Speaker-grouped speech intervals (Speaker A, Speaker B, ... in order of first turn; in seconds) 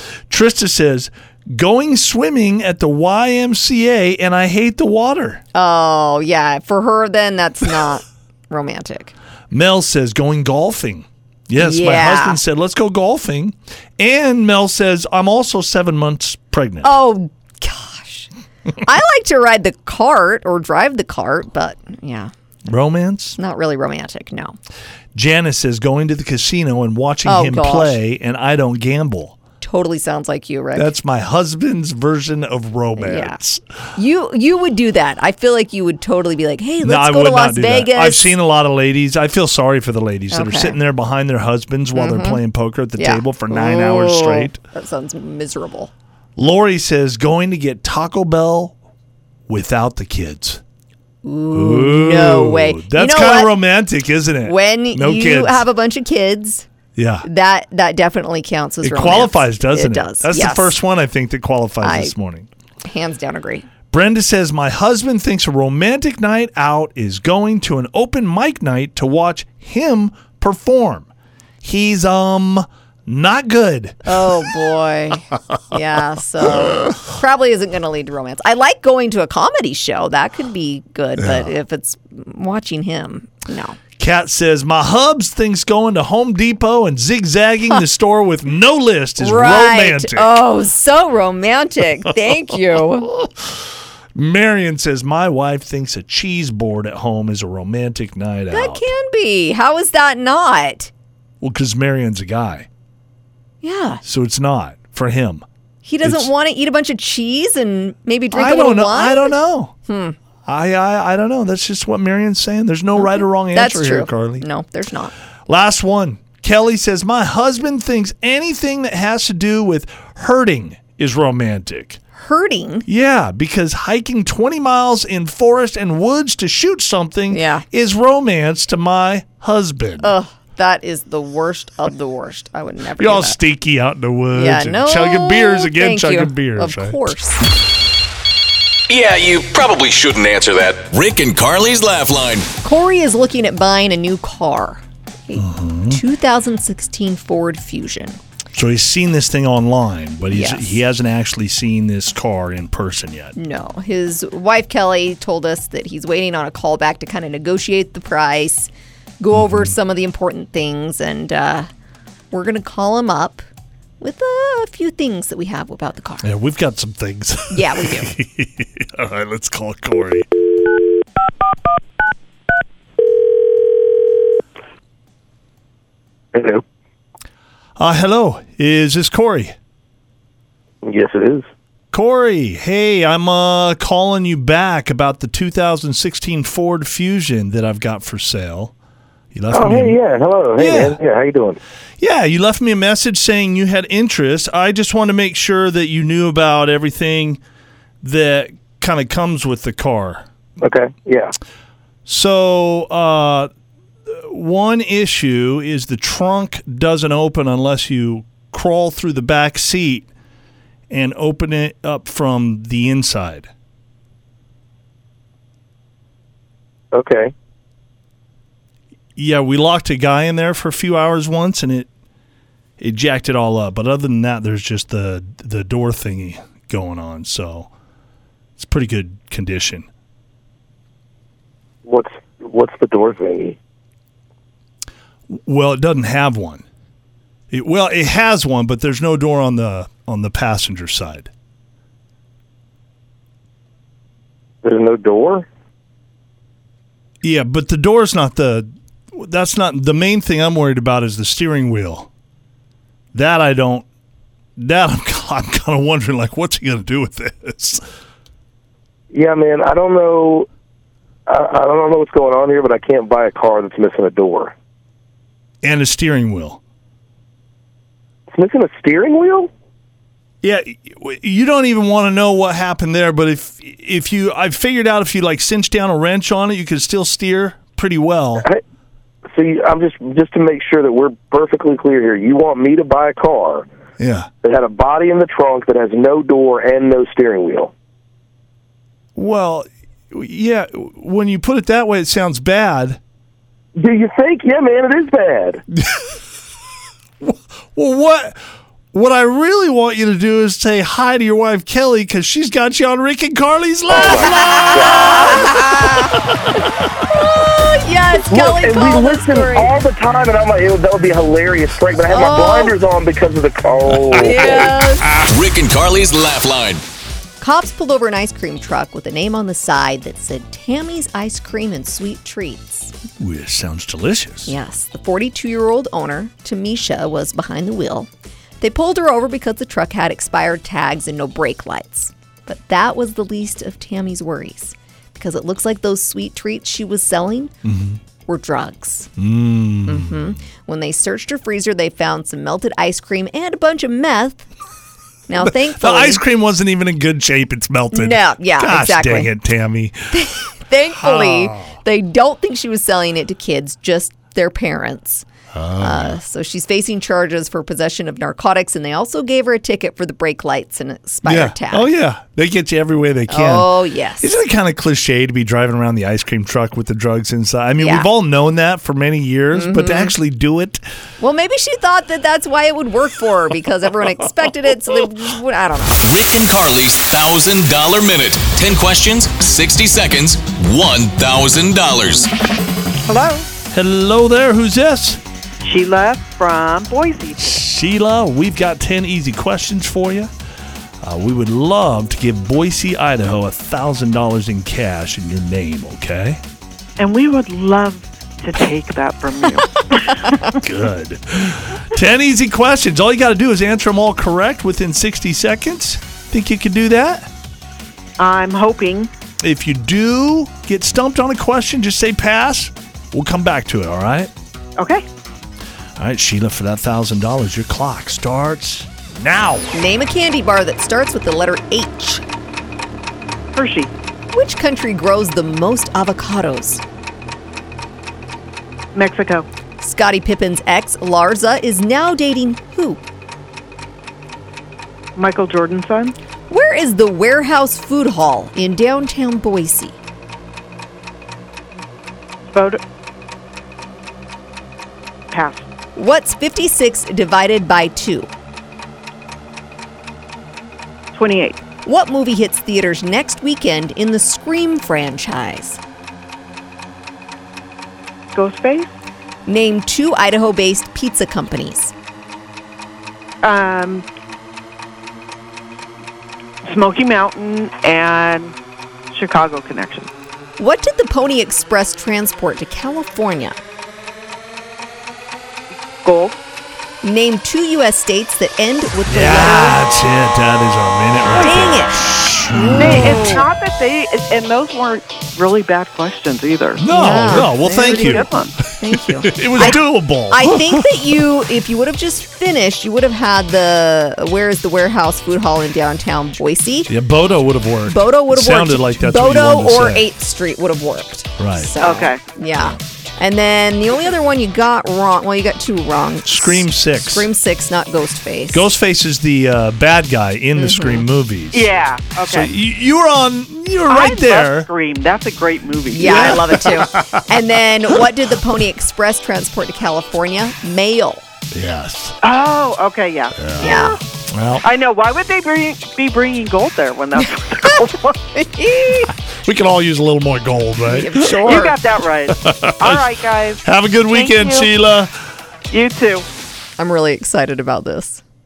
Speaker A: 0.3-5.4, 9.5-17.0, 22.7-23.4, 25.1-29.4, 30.8-33.6, 36.8-44.6, 46.4-48.8, 49.5-50.6, 51.5-55.6, 57.0-57.3, 58.8-62.5, 63.9-71.1, 71.6-74.3, 81.2-81.5, 84.0-90.4, 93.1-93.5, 94.1-98.9, 101.4-102.7, 104.0-105.5, 106.0-106.3, 108.3-109.7, 110.5-114.5, 115.5-122.0, 122.9-130.1, 133.0-137.1, 145.4-146.0, 148.5-153.3, 159.3-159.7, 166.2-170.3, 177.8-179.6, 181.9-188.7, 189.3-190.0, 190.6-191.0, 192.0-197.4, 198.0-200.3, 202.1-203.5, 204.1-210.1, 210.9-213.5, 219.2-221.9, 222.8-227.7, 228.6-229.9, 235.3-236.6, 237.5-241.3, 247.2-252.1, 253.1-253.9, 254.6-257.8, 265.6-266.6, 270.4-278.5, 284.0-284.3, 289.2-293.0, 295.8-296.2, 297.2-298.4, 298.9-306.1, 314.1-314.9, 323.2-324.5, 337.6-338.0, 339.2-340.4, 345.4-351.7, 355.5-356.2, 361.2-370.8, 383.7-385.2, 387.4-390.3, 391.0-396.4, 400.5-407.3, 409.4-414.3, 416.0-419.7, 479.1-483.2, 486.8-491.1, 496.9-500.1, 501.4-501.7, 506.2-507.3, 508.5-511.7, 512.3-514.7, 516.0-517.4, 521.5-522.2, 523.4-524.7, 529.4-531.5, 532.3-535.1
Speaker B: 5.5-9.1, 11.6-12.4, 16.8-18.3, 18.8-22.3, 23.4-24.6, 27.2-28.0, 29.6-30.9, 33.0-33.4, 34.0-38.4, 40.3-40.8, 41.9-42.4, 43.0-45.9, 51.2-53.6, 54.4-56.7, 57.2-60.8, 61.8-62.1, 62.9-63.7, 74.0-83.8, 89.2-93.1, 98.5-100.9, 103.6-104.0, 105.8-110.2, 113.0-115.1, 122.2-122.9, 127.3-127.7, 130.0-133.4, 134.3-137.4, 142.6-148.2, 150.3-150.8, 153.3-158.7, 159.2-161.7, 162.3-163.4, 164.0-166.3, 167.5-168.1, 304.0-306.2, 307.3-309.8, 312.1-312.8, 314.1-315.1, 317.4-322.9, 324.5-337.5, 338.3-339.1, 339.9-344.4, 345.3-346.2, 347.9-349.3, 350.1-355.2, 355.8-361.9, 363.3-364.3, 367.8-368.1, 369.5-370.2, 371.2-376.0, 419.7-422.2, 424.3-426.8, 429.8-433.0, 436.5-440.0, 446.0-448.3, 451.9-455.8, 459.5-461.9, 470.6-473.6, 477.0-479.8, 481.4-481.9, 482.5-483.4, 486.9-496.9, 497.9-508.7, 510.6-511.1, 515.9-521.2, 523.6-524.0, 527.6-529.1, 530.8-531.8, 536.8-538.2
Speaker C: 138.9-142.5, 315.1-316.8, 376.0-382.3
Speaker D: 176.3-176.6, 180.8-181.5, 189.5-191.6, 200.6-201.3, 216.9-217.3, 231.8-233.6, 244.6-245.5, 259.1-260.5, 261.3-264.5, 268.3-269.5, 279.3-283.7, 284.4-287.7, 293.8-295.6, 303.9-305.5, 308.3-314.8
Speaker E: 383.1-383.5, 385.6-387.6, 397.0-400.5, 408.2-409.1, 414.8-415.0, 423.5-423.9, 428.9-429.5, 435.2-436.2, 442.5-442.8, 445.3-445.7, 451.1-451.6, 458.3-458.9, 463.4-464.1, 466.7-468.6, 469.1-470.1, 476.0-476.4, 481.3-482.0, 482.7-488.6, 501.8-502.2, 511.5-512.5, 513.9-516.9, 522.2-524.0, 524.6-528.2, 531.2-534.7, 535.7-536.2